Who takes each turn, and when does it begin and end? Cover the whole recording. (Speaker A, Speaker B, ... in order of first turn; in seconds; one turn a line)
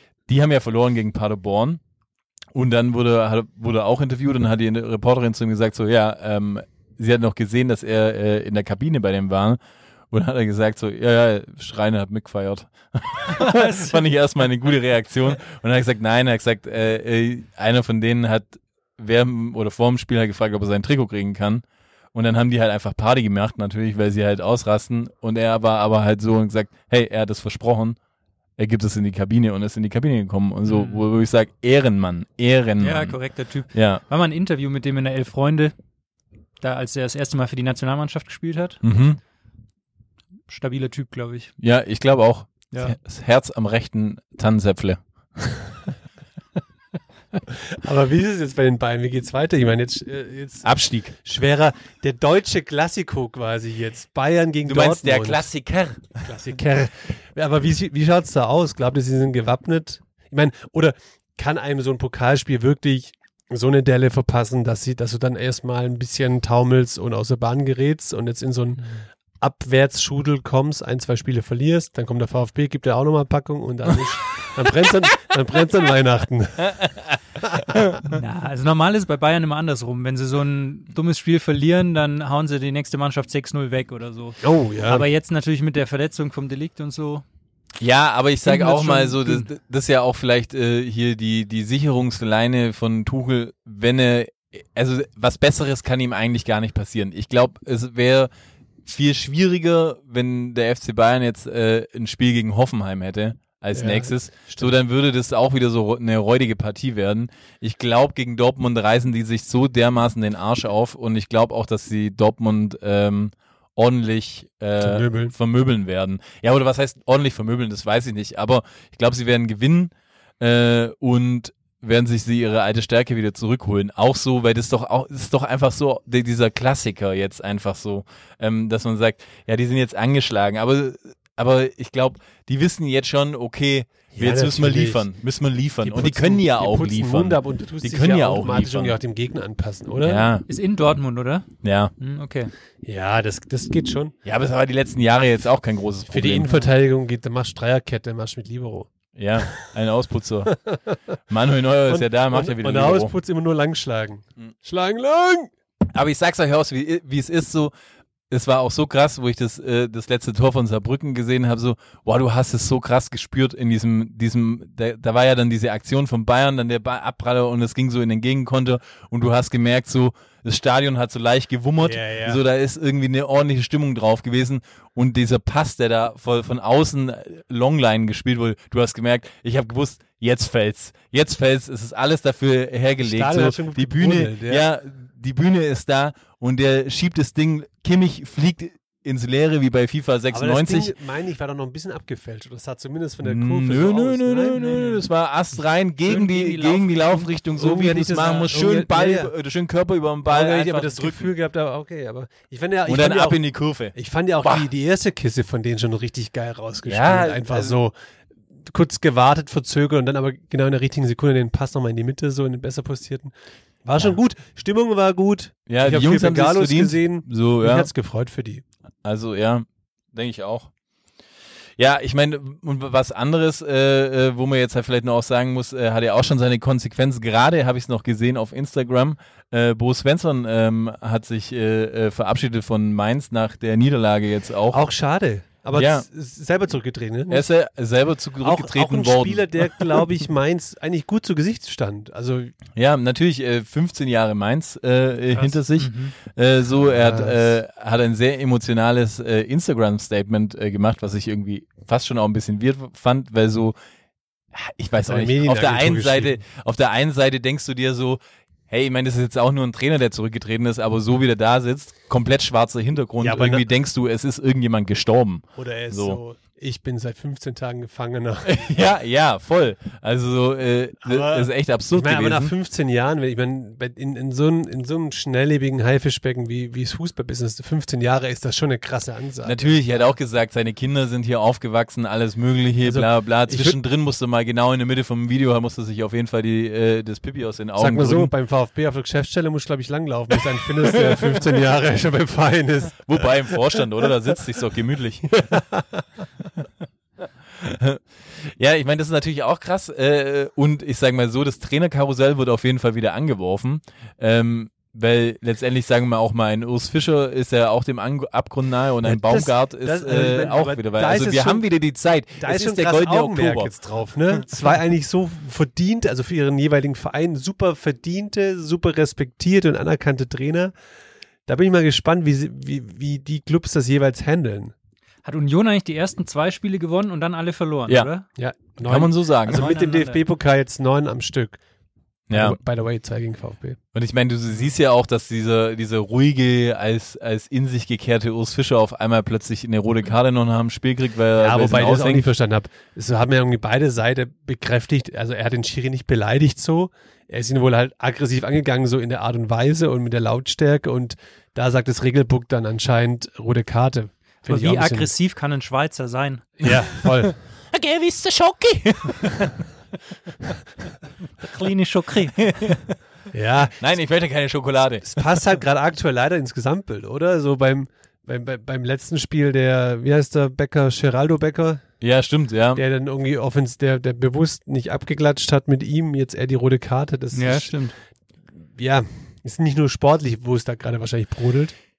Speaker A: 0.3-1.8
Speaker A: 2.5-9.6
Speaker A: 10.1-28.0
Speaker B: 13.3-14.0
Speaker A: 28.6-33.2
Speaker B: 30.6-31.0
Speaker B: 32.8-35.7
Speaker A: 33.7-34.0
Speaker B: 36.6-38.8
Speaker A: 38.8-39.2
Speaker B: 40.5-41.5
Speaker A: 41.6-45.0
Speaker C: 47.5-55.4
Speaker A: 50.6-51.1
Speaker A: 54.7-56.2
Speaker C: 56.2-68.9
Speaker C: 69.4-76.7
Speaker A: 76.7-77.1
Speaker C: 77.4-78.0
Speaker A: 77.8-78.0
Speaker B: 78.1-87.2
Speaker C: 84.4-85.1
Speaker A: 87.8-98.3
Speaker B: 88.5-89.5
Speaker A: 98.8-139.0
Speaker C: 103.8-104.7
Speaker C: 114.8-115.3
Speaker C: 134.1-135.0
Speaker C: 135.8-140.3
Speaker A: 140.0-140.5
Speaker B: 140.5-141.5
Speaker A: 141.6-141.9
Speaker B: 142.0-142.5
Speaker C: 142.8-144.1
Speaker A: 144.2-146.5
Speaker C: 146.1-148.9
Speaker A: 149.2-150.6
Speaker C: 150.5-151.0
Speaker A: 151.3-153.1
Speaker C: 151.9-155.5
Speaker A: 155.9-157.7
Speaker A: 158.3-190.9
Speaker C: 171.8-172.4
Speaker C: 183.0-184.7
Speaker C: 190.3-195.0
Speaker A: 193.2-201.3
Speaker B: 196.1-197.3
Speaker C: 197.6-199.3
Speaker C: 200.3-203.4
Speaker A: 202.9-204.6
Speaker C: 203.9-207.9
Speaker A: 206.9-207.8
Speaker C: 208.6-213.3
Speaker C: 213.8-218.6
Speaker A: 215.7-217.9
Speaker A: 219.0-220.7
Speaker A: 221.8-234.8
Speaker C: 234.7-237.5
Speaker A: 235.7-236.1
Speaker A: 237.3-240.0
Speaker C: 238.4-242.6
Speaker A: 242.8-253.8
Speaker B: 245.3-246.1
Speaker C: 246.9-247.4
Speaker A: 254.5-266.2
Speaker C: 255.0-256.4
Speaker C: 263.2-263.6
Speaker C: 265.6-268.7
Speaker A: 268.4-272.5
Speaker C: 271.1-279.8
Speaker A: 279.4-288.3
Speaker C: 282.8-283.8
Speaker C: 287.8-293.6
Speaker A: 293.0-295.6
Speaker C: 295.4-296.0
Speaker A: 297.6-313.7
Speaker C: 309.0-311.6
Speaker C: 312.4-320.7
Speaker C: 321.5-324.7
Speaker B: 325.2-328.3
Speaker C: 328.4-331.6
Speaker A: 328.8-329.7
Speaker B: 329.5-330.2
Speaker A: 332.3-332.6
Speaker C: 332.3-333.8
Speaker A: 333.9-342.3
Speaker C: 341.4-355.1
Speaker B: 354.5-356.6
Speaker C: 356.6-357.4
Speaker A: 356.7-359.6
Speaker B: 361.4-362.6
Speaker A: 362.4-362.8
Speaker C: 363.3-363.8
Speaker A: 363.8-365.3
Speaker C: 365.0-371.8
Speaker A: 372.0-372.8
Speaker C: 372.8-377.8
Speaker B: 377.3-377.9
Speaker C: 378.7-381.7